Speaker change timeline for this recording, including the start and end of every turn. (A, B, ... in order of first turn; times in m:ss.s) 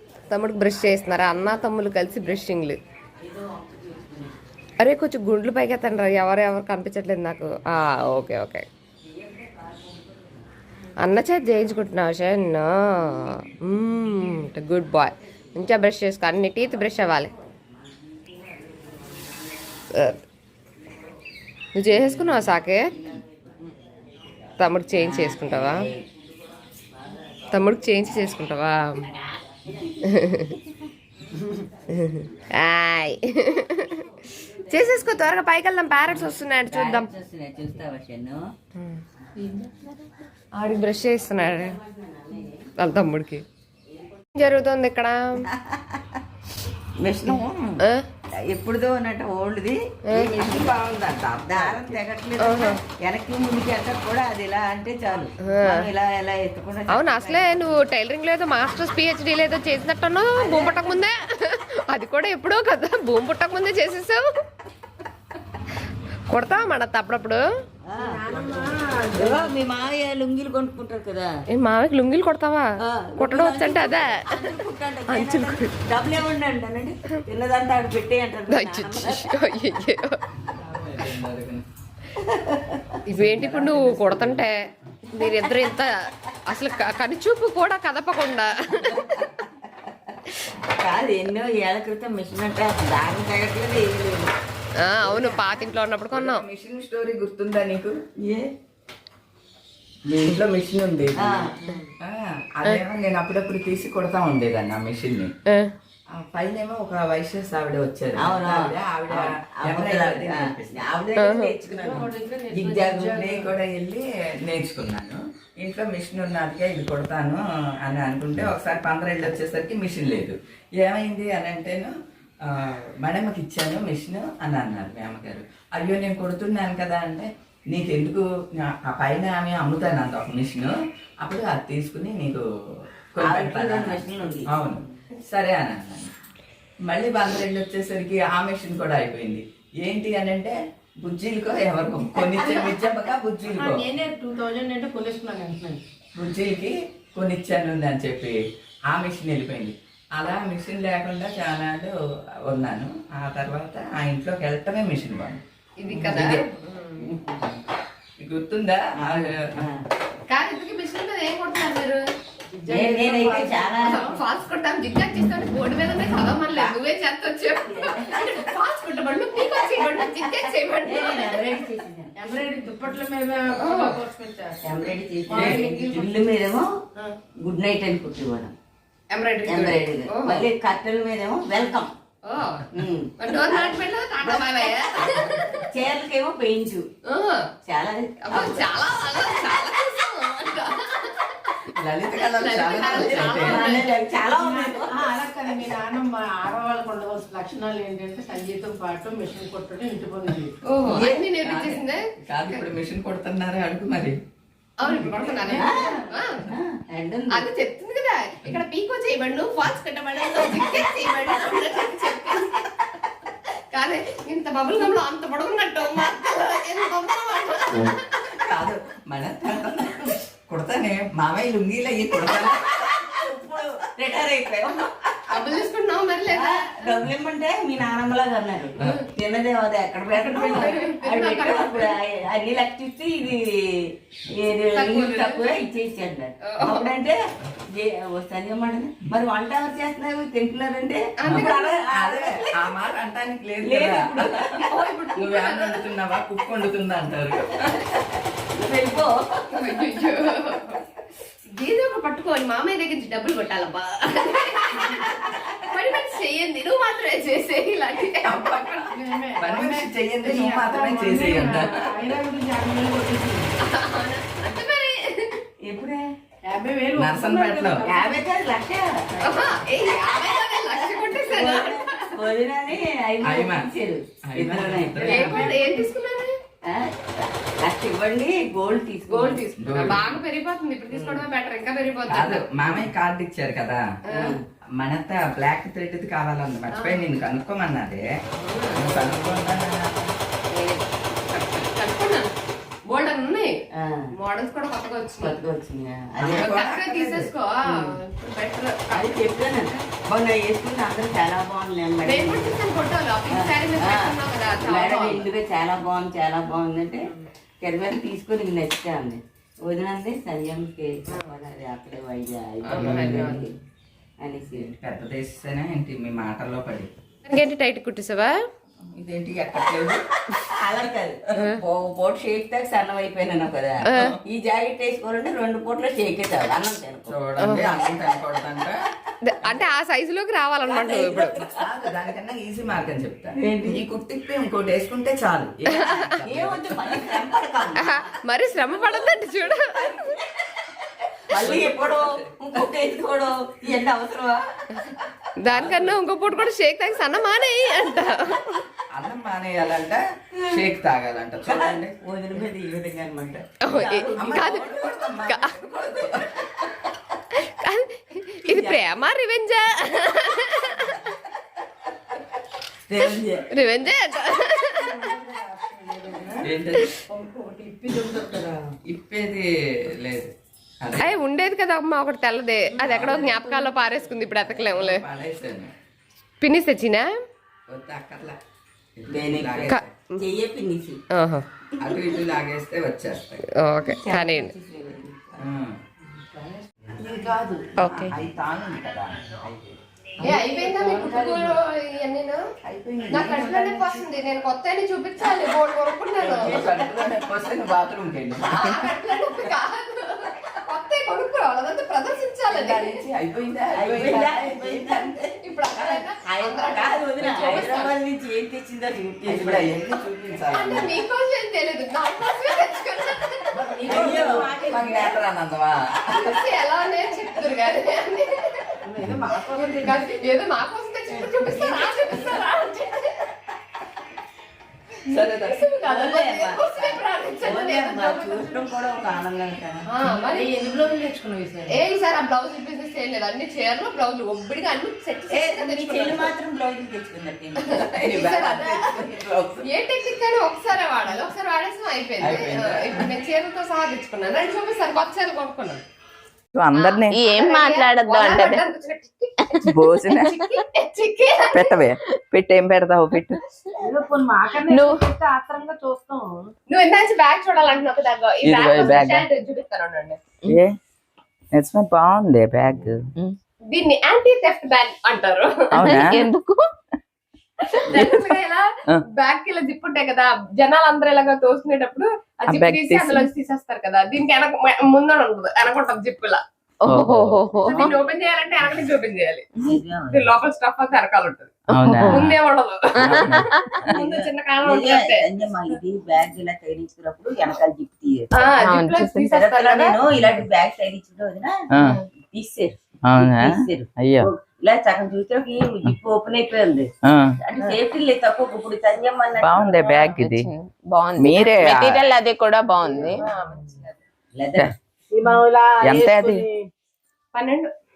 0:00.3-0:02.8 A
0:03.2-0:04.4 B
0:04.8-0:08.7 A
0:09.0-0:10.4 B
0:11.0-0:17.3 A
0:17.0-0:19.5 B
0:19.9-0:20.2 A
0:21.7-0:23.0 A
0:21.9-0:24.1 B
0:24.6-0:25.9 A
0:24.8-0:26.2 B
0:26.9-0:27.5 B
0:27.5-0:29.1 A
0:29.3-0:30.6 B
0:30.0-0:30.6 A
0:31.9-0:34.0 A
0:33.7-0:35.3 B
0:34.6-0:37.1 A
0:36.7-0:38.5 B
0:38.7-0:39.0 A
0:39.4-0:39.8 C
0:40.6-0:41.8 A
0:41.3-0:42.7 B
0:42.8-0:43.4 A
0:43.9-0:44.2 B
0:44.3-0:45.5 A
0:45.5-0:46.2 B
0:47.0-0:47.8 B
0:47.8-0:48.0 A
0:48.4-0:50.8 B
0:50.1-0:50.5 A
0:50.2-0:52.0 D
0:51.3-0:57.8 B
0:52.4-0:52.8 A
0:55.4-0:55.9 A
0:56.9-1:04.2 A
1:00.4-1:01.0 B
1:06.3-1:07.4 A
1:07.9-1:11.4 B
1:08.0-1:09.6 C
1:11.5-1:14.5 A
1:12.8-1:19.3 B
1:15.1-1:15.7 A
1:18.5-1:20.2 A
1:20.5-1:21.7 D
1:22.2-1:23.0 B
1:23.1-1:24.6 A
1:23.2-1:24.5 D
1:25.1-1:29.1 A
1:25.2-1:25.5 B
1:28.8-1:29.2 B
1:30.7-1:34.3 B
1:34.8-1:36.4 A
1:35.0-1:35.5 D
1:36.1-1:38.0 D
1:38.2-1:38.5 B
1:40.1-1:40.4 B
1:40.2-1:45.3 D
1:41.2-1:41.9 B
1:46.1-1:50.8 D
1:48.2-1:53.1 B
1:51.2-1:51.5 A
1:51.7-1:53.5 C
1:52.8-2:12.5 D
2:13.2-2:16.1 D
2:13.2-2:15.0 B
2:16.9-2:23.8 D
2:23.5-2:25.8 C
2:26.2-2:32.0 D
2:32.5-2:35.4 D
2:35.8-2:37.1 A
2:35.9-2:36.3 B
2:36.0-2:36.4 D
2:37.0-2:37.6 B
2:38.2-2:39.7 D
2:39.0-2:39.8 B
2:40.3-2:42.0 A
2:42.5-2:44.2 C
2:42.7-2:44.1 B
2:43.8-2:51.6 A
2:47.6-2:48.6 B
2:49.6-2:52.1 B
2:52.2-2:56.1 C
2:53.6-2:54.0 A
2:54.6-2:56.7 B
2:55.3-2:56.0 D
2:57.4-2:58.6 B
2:59.1-3:00.5 A
2:59.5-3:01.9 B
3:02.3-3:05.7 A
3:02.7-3:06.9 B
3:07.0-3:07.5 A
3:07.7-3:08.7 B
3:08.3-3:11.6 A
3:11.7-3:13.7 D
3:12.1-3:13.8 A
3:12.9-3:15.1 B
3:14.3-3:20.6 C
3:20.7-3:22.6 A
3:20.9-3:24.2 D
3:24.8-3:26.5 A
3:24.9-3:25.8 C
3:25.4-3:27.5 B
3:27.3-3:32.6 A
3:33.7-3:38.2 A
3:38.4-3:43.1 D
3:42.8-3:45.6 B
3:45.3-3:47.0 A
3:46.3-3:57.2 B
3:48.8-3:49.0 D
3:50.1-3:51.9 A
3:54.6-3:55.5 A
3:56.4-3:56.9 A
3:57.7-4:02.3 B
4:01.2-4:01.9 A
4:01.3-4:04.5 D
4:03.6-4:04.7 B
4:04.7-4:05.9 A
4:05.2-4:08.0 D
4:08.5-4:09.2 B
4:09.5-4:10.8 A
4:11.4-4:18.9 A
4:18.2-4:21.8 D
4:18.9-4:23.5 C
4:23.6-4:25.4 A
4:25.6-4:26.1 B
4:26.4-4:28.2 C
4:27.0-4:27.9 D
4:27.8-4:35.6 B
4:29.2-4:32.1 A
4:33.2-4:33.7 D
4:34.2-4:35.6 D
4:35.0-4:36.3 A
4:35.1-4:35.7 C
4:36.6-4:39.4 B
4:39.1-4:42.4 A
4:39.6-4:40.1 D
4:40.9-4:41.2 B
4:42.1-4:43.9 D
4:44.1-4:44.4 A
4:44.1-4:44.4 B
4:44.8-4:48.0 D
4:46.7-4:47.0 A
4:48.4-4:49.1 A
4:48.7-4:50.1 D
4:48.8-4:49.5 B
4:50.5-4:50.9 B
4:51.3-4:52.3 A
4:52.9-4:53.6 A
4:53.7-4:54.1 B
4:54.1-4:55.4 A
4:55.2-4:56.5 B
4:56.2-4:57.3 D
4:56.4-4:59.2 A
4:58.9-5:02.6 B
5:02.0-5:05.3 A
5:03.3-5:07.1 B
5:07.6-5:13.5 B
5:12.6-5:13.5 A
5:12.8-5:13.4 D
5:14.2-5:14.7 B
5:14.6-5:16.9 D
5:17.2-5:18.4 A
5:19.0-5:20.0 D
5:20.4-5:27.2 B
5:23.8-5:24.2 A
5:27.1-5:28.8 D
5:27.4-5:27.8 A
5:29.2-5:31.4 A
5:30.6-5:31.7 B
5:31.5-5:37.3 D
5:33.4-5:33.8 B
5:35.7-5:36.2 A
5:36.2-5:39.2 B
5:37.8-5:40.2 A
5:39.7-5:40.4 B
5:41.2-5:44.4 B
5:41.3-5:42.3 D
5:45.4-5:48.6 A
5:45.5-5:46.0 D
5:48.9-5:52.0 D
5:51.4-5:54.8 B
5:53.6-5:54.7 A
5:54.2-5:56.4 D
5:55.2-5:55.6 A
5:57.3-6:01.0 A
5:58.5-5:58.8 B
6:02.8-6:03.5 B
6:03.5-6:04.9 A
6:04.6-6:08.6 C
6:06.4-6:06.9 D
6:08.9-6:11.1 D
6:11.0-6:15.0 A
6:12.8-6:13.4 D
6:13.0-6:13.9 C
6:14.5-6:15.7 D
6:16.4-6:17.1 A
6:17.7-6:18.4 D
6:19.0-6:19.8 D
6:19.1-6:21.0 B
6:19.7-6:20.2 A
6:21.1-6:21.4 A
6:21.8-6:23.4 D
6:23.6-6:24.5 A
6:23.8-6:25.5 B
6:25.4-6:25.8 D
6:26.2-6:27.8 C
6:27.8-6:28.1 E
6:27.8-6:30.4 D
6:30.2-6:32.4 A
6:30.2-6:31.5 C
6:32.6-6:34.1 D
6:33.1-6:36.6 A
6:36.2-6:38.9 D
6:36.2-6:37.2 B
6:38.5-6:43.0 A
6:42.5-6:45.1 D
6:43.8-6:49.8 B
6:45.4-6:47.9 A
6:47.2-6:47.7 D
6:49.2-6:50.9 D
6:50.5-6:53.9 A
6:53.5-6:55.2 C
6:53.9-6:55.2 B
6:53.9-6:56.4 D
6:56.1-6:58.8 A
6:58.8-7:00.1 C
6:59.5-7:03.2 A
7:01.3-7:02.5 C
7:05.1-7:05.9 D
7:05.1-7:08.7 A
7:05.8-7:09.9 B
7:09.9-7:10.5 A
7:10.1-7:11.8 C
7:11.7-7:16.3 A
7:15.3-7:19.3 B
7:17.6-7:19.1 A
7:18.0-7:19.6 D
7:19.6-7:25.8 A
7:22.2-7:23.1 D
7:26.5-7:27.2 D
7:26.8-7:31.8 A
7:27.1-7:28.6 E
7:29.7-7:30.4 D
7:31.5-7:33.4 D
7:33.8-7:36.5 C
7:34.7-7:35.0 E
7:36.7-7:40.2 A
7:38.4-7:39.2 D
7:40.5-7:40.8 D
7:41.5-7:43.1 D
7:43.7-7:46.0 A
7:45.7-7:46.3 D
7:45.8-7:46.6 E
7:47.7-7:56.4 A
7:47.9-7:48.2 D
7:52.5-7:53.3 D
7:56.8-7:57.9 E
7:56.9-7:57.9 D
7:57.6-7:59.5 A
7:59.6-8:00.3 B
8:00.1-8:01.5 A
8:01.7-8:02.4 D
8:01.7-8:02.3 E
8:02.1-8:05.2 A
8:03.0-8:03.9 D
8:03.0-8:03.8 E
8:03.8-8:08.5 B
8:08.3-8:10.0 A
8:08.6-8:09.2 E
8:09.3-8:11.6 B
8:11.7-8:12.0 D
8:12.2-8:20.2 B
8:13.1-8:14.3 D
8:17.0-8:17.4 D
8:19.4-8:20.5 D
8:20.2-8:23.2 E
8:21.2-8:22.0 D
8:22.8-8:24.0 A
8:24.3-8:24.7 B
8:25.1-8:26.7 C
8:25.8-8:26.4 D
8:27.3-8:27.7 A